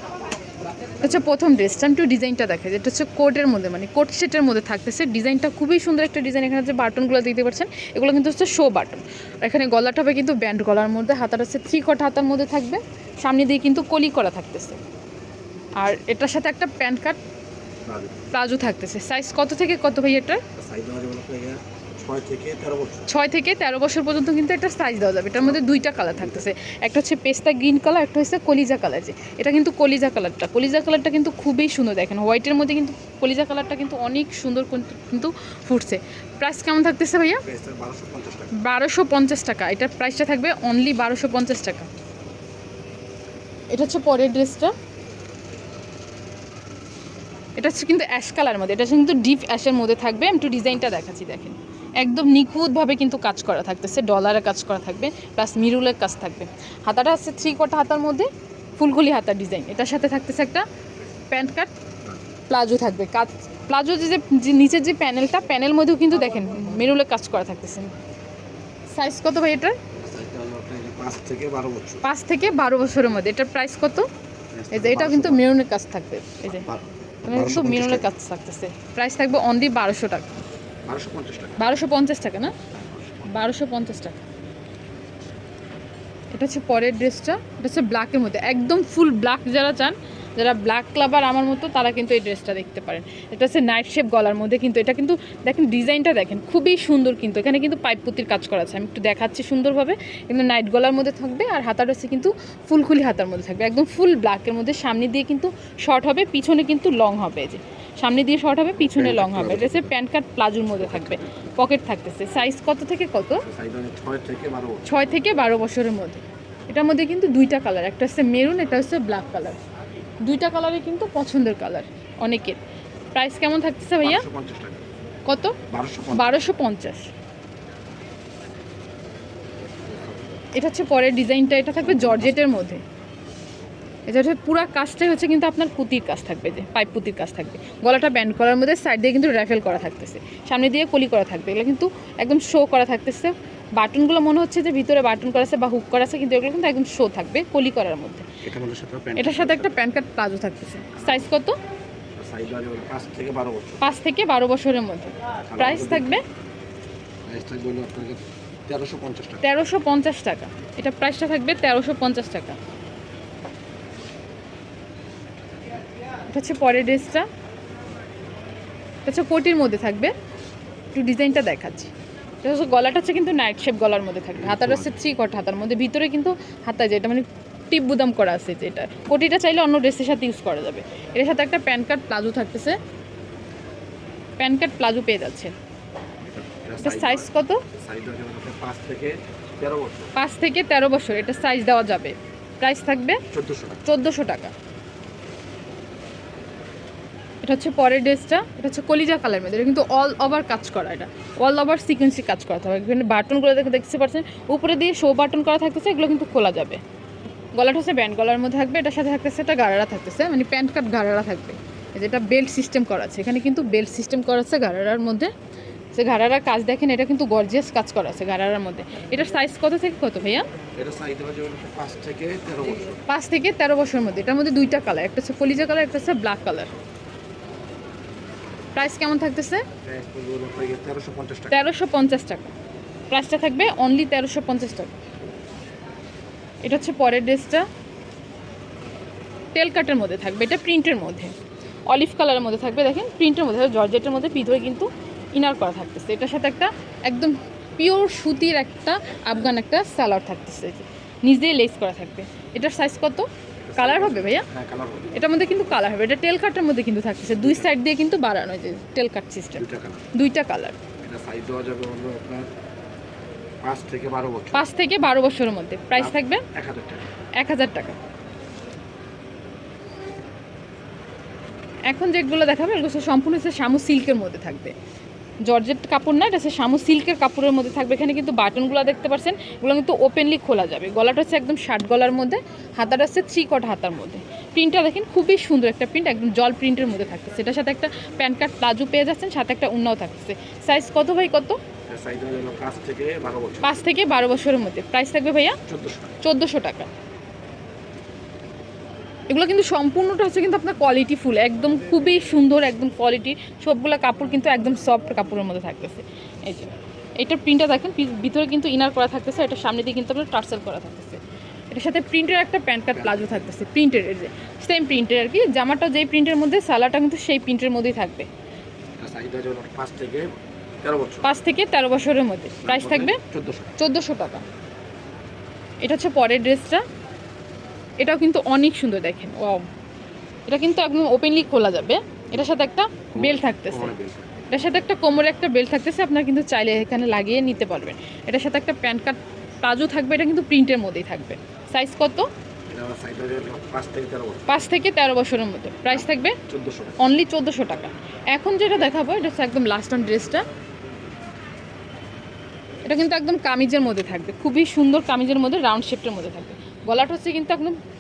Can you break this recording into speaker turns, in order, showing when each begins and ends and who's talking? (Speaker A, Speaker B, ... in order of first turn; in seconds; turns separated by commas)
Speaker A: 1.0-14.8, Speaker A: 15.8-17.2, Speaker B: 17.9-18.2, Speaker A: 18.3-20.4, Speaker B: 20.6-23.1, Speaker A: 23.1-37.4, Speaker B: 25.4-26.5, Speaker B: 37.4-38.5, Speaker A: 38.5-41.9, Speaker A: 43.7-44.7, Speaker A: 47.6-60.7, Speaker A: 61.3-61.7, Speaker A: 62.5-67.9, Speaker A: 68.9-69.8, Speaker B: 69.9-72.0, Speaker A: 72.0-74.1, Speaker B: 74.5-75.5, Speaker A: 74.7-76.7, Speaker B: 76.5-78.1, Speaker A: 77.2-80.3, Speaker B: 80.9-81.7, Speaker A: 81.6-82.5, Speaker B: 82.7-83.4, Speaker A: 83.2-84.2, Speaker A: 86.3-113.5, Speaker B: 108.8-109.9, Speaker B: 110.7-111.3, Speaker B: 113.4-115.0, Speaker A: 114.8-119.6, Speaker A: 120.2-122.6, Speaker A: 123.1-124.3, Speaker B: 124.0-124.8, Speaker A: 125.3-125.6, Speaker B: 125.7-126.4, Speaker A: 126.1-127.1, Speaker B: 129.8-130.4, Speaker A: 130.5-132.8, Speaker B: 131.8-132.3, Speaker A: 134.1-148.3, Speaker B: 148.4-149.7, Speaker A: 149.2-151.6, Speaker B: 150.9-151.3, Speaker B: 152.2-153.8, Speaker A: 153.8-156.2, Speaker B: 155.5-156.2, Speaker B: 157.3-159.4, Speaker A: 159.4-162.6, Speaker A: 166.3-167.3, Speaker A: 169.1-170.1, Speaker A: 170.9-171.9, Speaker A: 172.4-182.8, Speaker B: 174.4-174.9, Speaker A: 184.4-185.5, Speaker B: 186.3-190.1, Speaker A: 186.8-187.7, Speaker A: 190.2-193.2, Speaker B: 193.3-193.8, Speaker A: 193.8-194.5, Speaker A: 197.4-206.8, Speaker A: 207.6-215.3, Speaker A: 215.9-220.5, Speaker B: 220.8-223.0, Speaker A: 223.1-226.7, Speaker A: 228.8-229.7, Speaker B: 229.8-231.6, Speaker A: 231.5-232.5, Speaker A: 233.1-234.9, Speaker A: 236.6-237.7, Speaker A: 239.6-241.3, Speaker A: 241.9-254.5, Speaker B: 253.7-255.5, Speaker A: 255.2-260.8, Speaker B: 257.4-257.7, Speaker B: 259.6-260.1, Speaker B: 261.0-262.5, Speaker B: 263.6-264.7, Speaker A: 264.5-266.4, Speaker B: 266.0-267.1, Speaker A: 267.4-268.0, Speaker A: 271.9-274.7, Speaker A: 275.4-291.6, Speaker B: 291.9-293.8, Speaker A: 293.6-295.6, Speaker B: 295.7-296.2, Speaker A: 296.2-296.9, Speaker A: 299.3-311.2, Speaker A: 311.7-318.3, Speaker B: 312.9-313.5, Speaker B: 319.0-321.3, Speaker A: 321.2-323.2, Speaker B: 322.6-323.8, Speaker A: 323.8-324.4, Speaker A: 325.8-326.8, Speaker A: 328.0-329.7, Speaker A: 330.5-333.9, Speaker B: 333.1-334.3, Speaker A: 334.5-342.3, Speaker B: 342.7-344.5, Speaker A: 344.5-346.4, Speaker B: 345.9-347.0, Speaker A: 347.0-350.4, Speaker A: 352.9-357.8